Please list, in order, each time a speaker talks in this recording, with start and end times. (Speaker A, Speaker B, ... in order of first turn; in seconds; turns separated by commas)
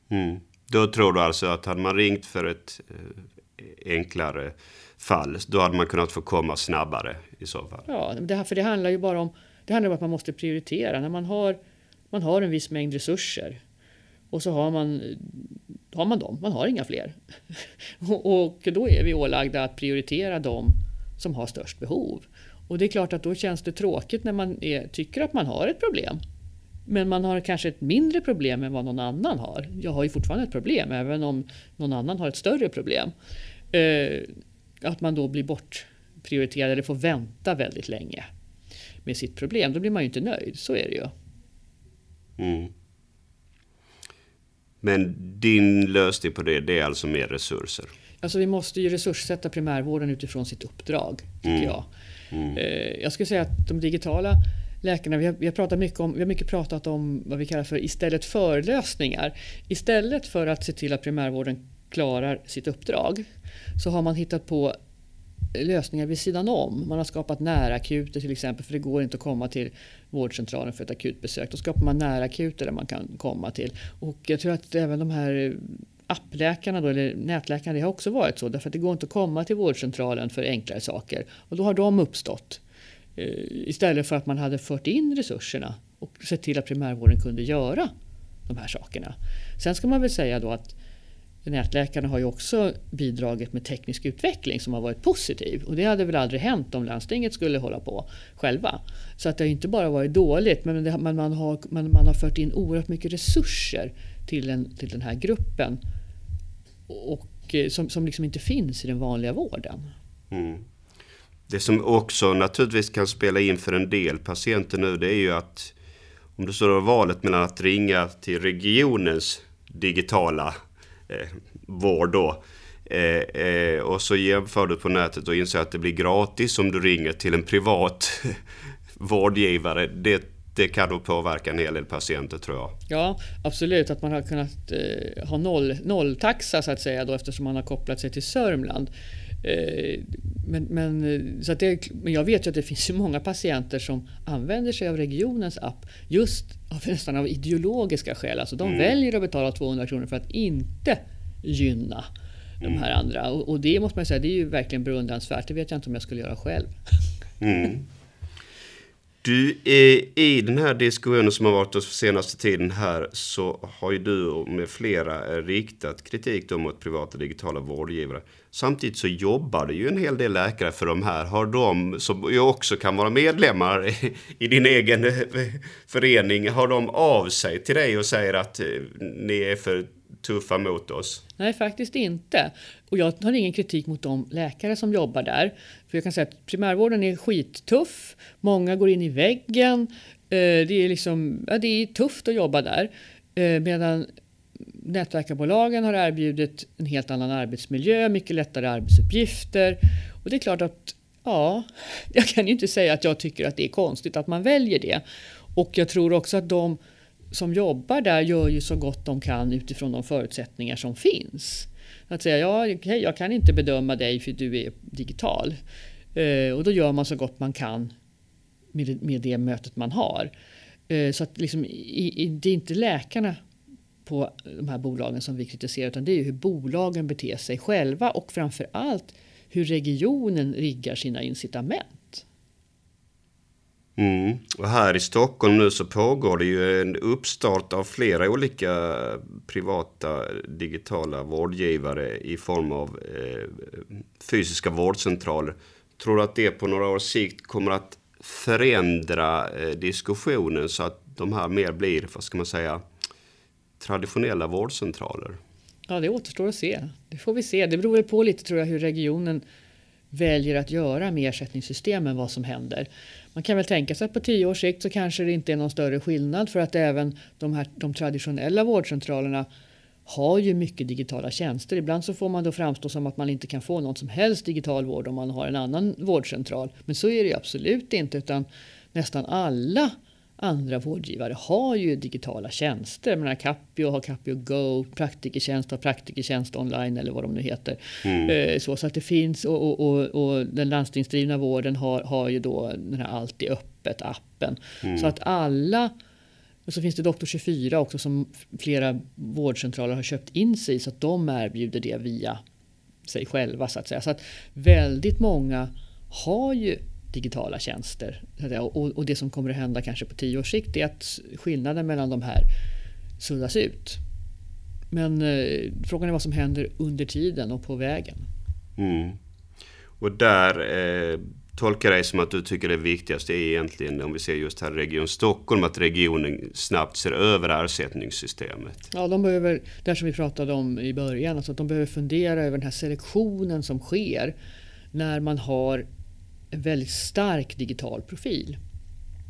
Speaker A: 0.1-7.9, Speaker B: 7.9-11.6, Speaker B: 12.1-13.6, Speaker B: 14.3-26.2, Speaker B: 26.9-33.1, Speaker B: 33.7-34.3, Speaker B: 34.8-38.3, Speaker B: 39.0-41.1, Speaker A: 42.4-42.7, Speaker A: 44.8-47.9, Speaker B: 48.2-51.9, Speaker A: 51.4-51.7, Speaker B: 52.5-63.2, Speaker B: 63.8-64.8, Speaker B: 65.5-82.6, Speaker B: 83.2-87.9, Speaker B: 88.5-90.8, Speaker B: 91.5-105.8, Speaker B: 106.9-109.9, Speaker A: 110.3-110.6, Speaker A: 111.5-115.7, Speaker A: 116.4-120.5, Speaker A: 121.1-128.4, Speaker A: 128.9-132.8, Speaker B: 132.9-138.9, Speaker B: 139.4-152.1, Speaker A: 148.6-148.9, Speaker B: 152.6-156.7, Speaker A: 157.4-157.9, Speaker A: 159.2-181.2, Speaker B: 181.4-194.1, Speaker B: 194.8-205.0, Speaker B: 205.6-206.8, Speaker B: 207.3-215.6, Speaker B: 216.2-217.9, Speaker B: 218.7-220.3, Speaker B: 220.9-223.4, Speaker B: 224.1-232.2, Speaker A: 234.0-252.8, Speaker A: 253.8-255.4, Speaker B: 255.9-259.4, Speaker B: 260.1-269.5, Speaker B: 270.1-295.9, Speaker A: 288.0-288.3, Speaker A: 294.8-295.1, Speaker B: 296.7-302.4, Speaker B: 303.1-312.5, Speaker B: 313.2-314.0, Speaker B: 314.9-318.3, Speaker A: 318.8-319.2, Speaker A: 320.0-328.9, Speaker B: 328.9-334.4, Speaker B: 334.9-335.9, Speaker B: 336.5-338.6